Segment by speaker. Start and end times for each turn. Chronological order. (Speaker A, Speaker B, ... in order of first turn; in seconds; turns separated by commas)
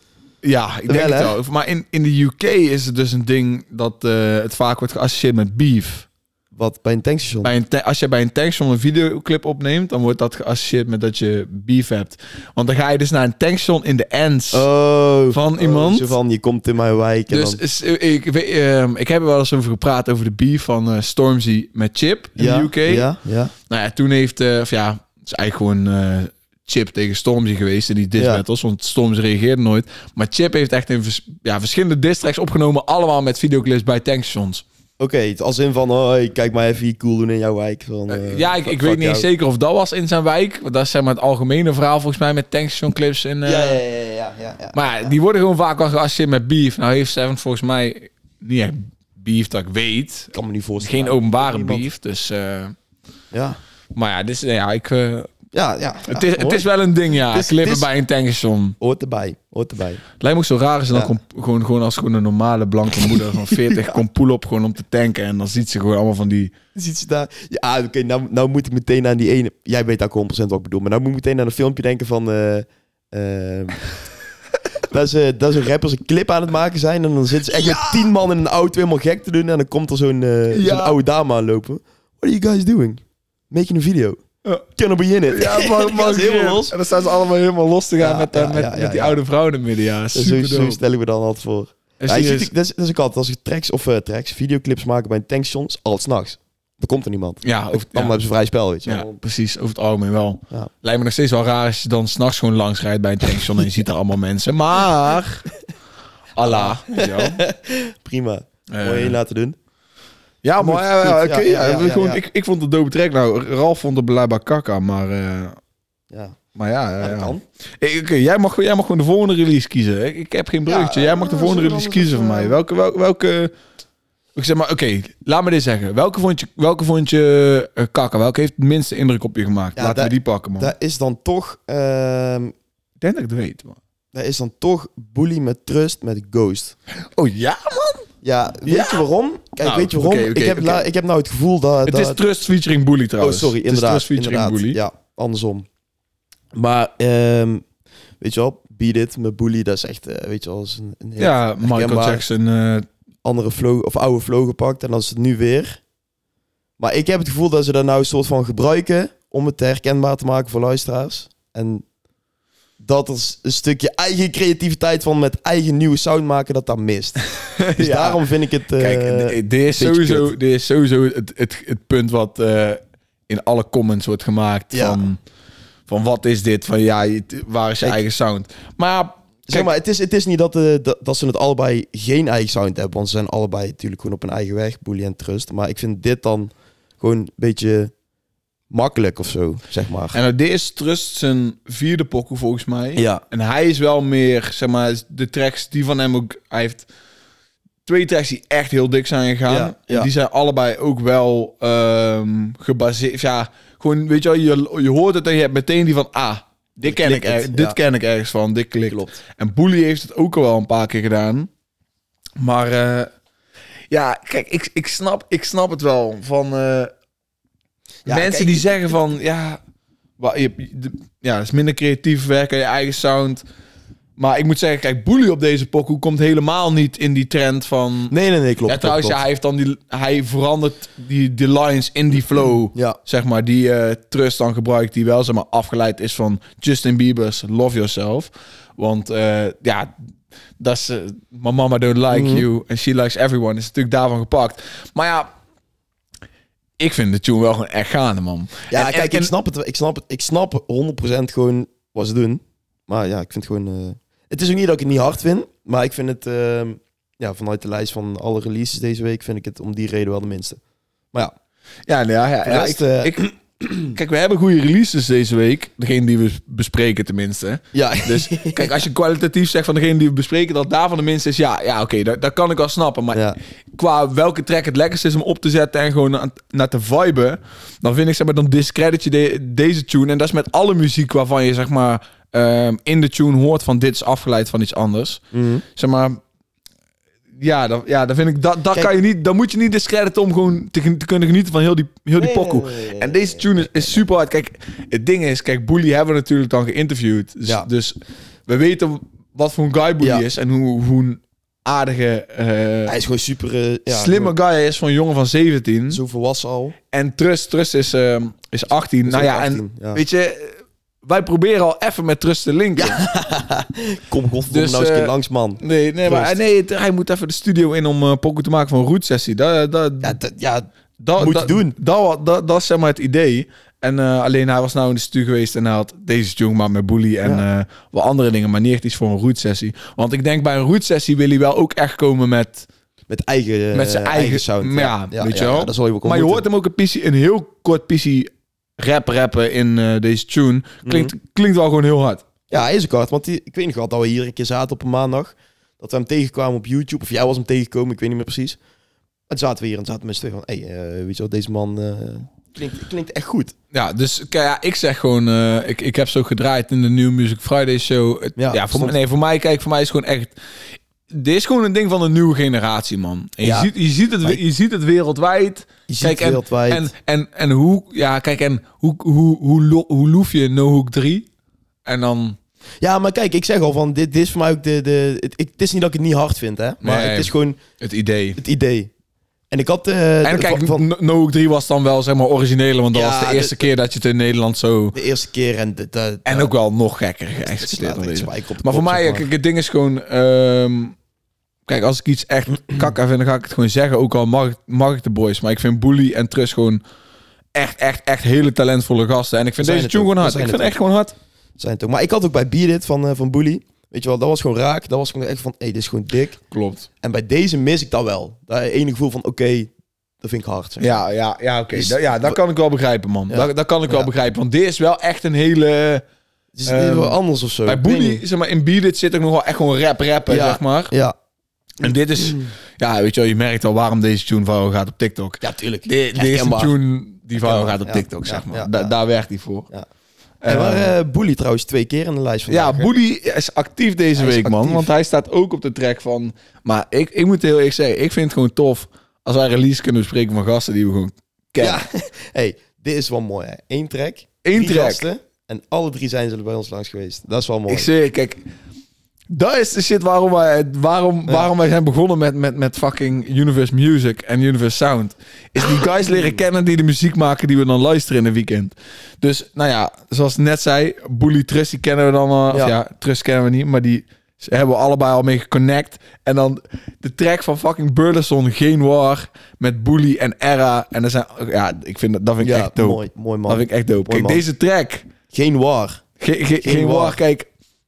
Speaker A: 0.4-6.1, Speaker B: 0.9-1.3, Speaker B: 6.5-7.5, Speaker A: 7.4-14.7, Speaker B: 14.5-17.6, Speaker A: 15.3-16.1, Speaker A: 17.3-23.1, Speaker B: 22.4-23.5, Speaker A: 23.7-34.6, Speaker B: 28.1-28.4, Speaker B: 35.0-39.2, Speaker A: 38.1-43.8, Speaker B: 43.4-45.1, Speaker A: 44.7-52.7, Speaker B: 50.3-51.9, Speaker B: 53.3-53.6, Speaker A: 53.9-55.3, Speaker B: 55.5-57.9, Speaker A: 56.1-58.8, Speaker B: 58.8-60.0, Speaker A: 60.2-66.5, Speaker B: 63.0-64.0, Speaker B: 66.7-73.8, Speaker B: 74.9-86.8, Speaker A: 77.5-78.0, Speaker A: 80.5-81.0, Speaker A: 85.3-90.8, Speaker B: 88.0-89.2, Speaker B: 90.1-99.2, Speaker A: 92.0-92.5, Speaker A: 97.4-98.2, Speaker A: 98.8-105.5, Speaker A: 106.3-107.4, Speaker B: 106.4-109.6, Speaker A: 108.7-109.2, Speaker A: 110.4-115.6, Speaker B: 110.6-112.2, Speaker B: 116.1-116.4, Speaker A: 116.5-123.5, Speaker B: 117.0-117.4, Speaker B: 120.7-122.6, Speaker A: 124.3-130.7, Speaker B: 129.8-132.5, Speaker A: 133.0-133.8, Speaker B: 134.1-136.8, Speaker A: 137.1-138.1, Speaker B: 138.2-142.2, Speaker A: 138.7-139.0, Speaker A: 139.6-140.8, Speaker A: 141.8-144.8, Speaker B: 143.2-145.7, Speaker B: 146.5-147.7, Speaker B: 148.2-152.2, Speaker A: 151.2-152.9, Speaker B: 153.2-155.8, Speaker B: 156.8-161.8, Speaker B: 162.8-167.2, Speaker A: 167.6-168.2, Speaker B: 167.8-170.3, Speaker A: 168.8-175.2, Speaker B: 174.7-175.0, Speaker A: 175.9-179.7, Speaker B: 179.5-187.9, Speaker B: 188.7-190.2, Speaker A: 190.1-196.8, Speaker B: 192.9-193.2, Speaker A: 197.8-211.5, Speaker B: 199.4-200.1, Speaker B: 206.8-207.8, Speaker B: 208.9-209.2, Speaker A: 212.4-213.1, Speaker A: 213.9-216.9, Speaker B: 218.1-218.7, Speaker A: 218.1-219.6, Speaker A: 220.2-223.4, Speaker A: 224.2-228.1, Speaker B: 228.1-229.2, Speaker A: 228.7-239.9, Speaker B: 232.7-233.0, Speaker A: 240.6-245.3, Speaker B: 242.1-242.4, Speaker A: 246.8-249.3, Speaker B: 248.7-260.6, Speaker A: 261.9-263.2, Speaker B: 262.4-263.9, Speaker A: 263.8-273.2, Speaker B: 267.7-268.7, Speaker A: 273.7-285.2, Speaker B: 285.3-285.6, Speaker A: 285.7-286.2, Speaker A: 287.4-302.9, Speaker B: 292.2-294.0, Speaker B: 302.9-304.3, Speaker A: 303.9-306.0, Speaker B: 305.9-306.7, Speaker A: 306.9-313.0, Speaker B: 309.1-310.0, Speaker B: 312.8-316.3, Speaker A: 314.5-320.2, Speaker B: 320.0-321.7, Speaker A: 321.0-332.7, Speaker B: 333.1-336.4, Speaker A: 333.7-342.2, Speaker B: 340.8-341.1, Speaker B: 342.5-348.6, Speaker B: 349.3-353.5, Speaker A: 353.7-360.4, Speaker B: 358.4-358.9, Speaker A: 361.1-371.3, Speaker B: 363.4-363.7, Speaker B: 365.9-366.9, Speaker A: 371.8-372.4, Speaker B: 372.8-377.6, Speaker A: 376.8-378.4, Speaker B: 378.4-378.9, Speaker B: 379.5-380.8, Speaker A: 380.2-384.9, Speaker B: 382.9-383.7, Speaker B: 384.9-386.5, Speaker A: 386.2-390.9, Speaker B: 387.5-389.3, Speaker A: 391.7-396.8, Speaker A: 397.5-401.1, Speaker B: 399.6-400.8, Speaker B: 401.6-406.4, Speaker A: 406.5-406.9, Speaker B: 407.0-411.0, Speaker A: 410.8-416.0, Speaker B: 411.7-412.4, Speaker B: 413.3-414.1, Speaker B: 416.5-418.2, Speaker A: 416.6-420.9, Speaker B: 420.3-421.1, Speaker A: 421.8-429.7, Speaker B: 425.4-426.7, Speaker B: 427.3-428.9, Speaker A: 430.4-430.9, Speaker B: 430.4-432.9, Speaker A: 432.5-441.8, Speaker B: 434.1-434.9, Speaker B: 441.6-447.9, Speaker A: 444.4-445.1, Speaker A: 447.7-448.4, Speaker A: 449.3-475.1, Speaker B: 455.6-456.4, Speaker B: 472.4-474.4, Speaker B: 475.3-476.0, Speaker A: 476.2-477.5, Speaker B: 476.6-477.2